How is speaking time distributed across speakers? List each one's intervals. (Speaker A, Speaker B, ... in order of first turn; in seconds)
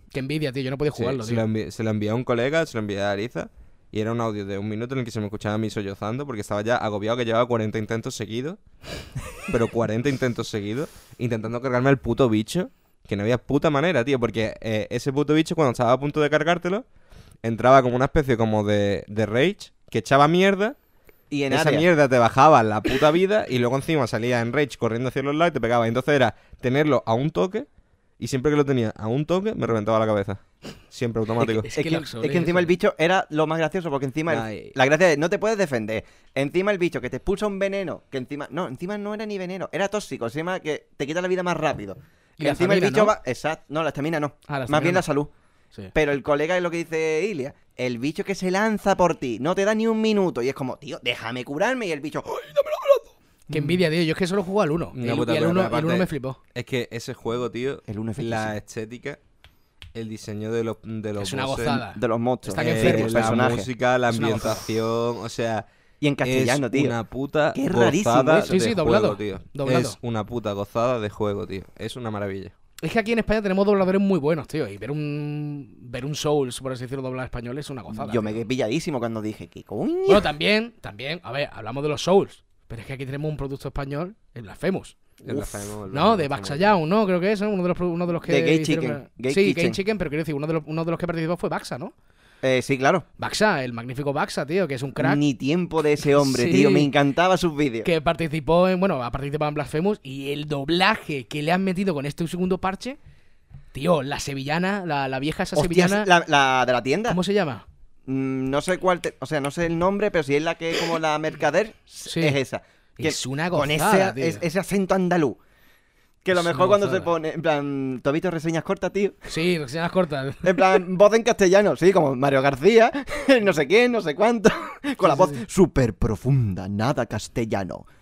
Speaker A: 0.1-1.4, 31.4-32.7, 42.4-43.1, 44.5-45.1, 53.5-56.4, 61.2-63.4, 64.1-64.6, 68.5-70.0, 72.8-78.4, 80.1-85.0, 85.9-91.9, 93.2-95.2, 96.0-96.9, 97.8-103.0, 103.7-106.1, 107.1-107.6, 112.0-112.4, 113.0-114.4, 116.3-117.1, 119.3-120.8, 125.0-125.4
Speaker B: 0.9-8.6, 9.5-16.8, 17.4-20.8, 21.5-27.6, 28.2-31.7, 34.3-34.7, 54.9-59.2, 59.9-61.8, 62.5-65.7, 66.2-72.5, 85.2-86.8
Speaker C: 21.3-21.9, 31.4-45.3, 45.9-53.7, 57.9-58.5, 62.0-63.7, 66.0-67.0, 67.5-68.5, 77.9-80.3, 88.2-89.8, 92.4-93.0, 95.0-97.9, 105.5-107.2, 108.0-115.4, 116.2-119.2, 120.4-127.8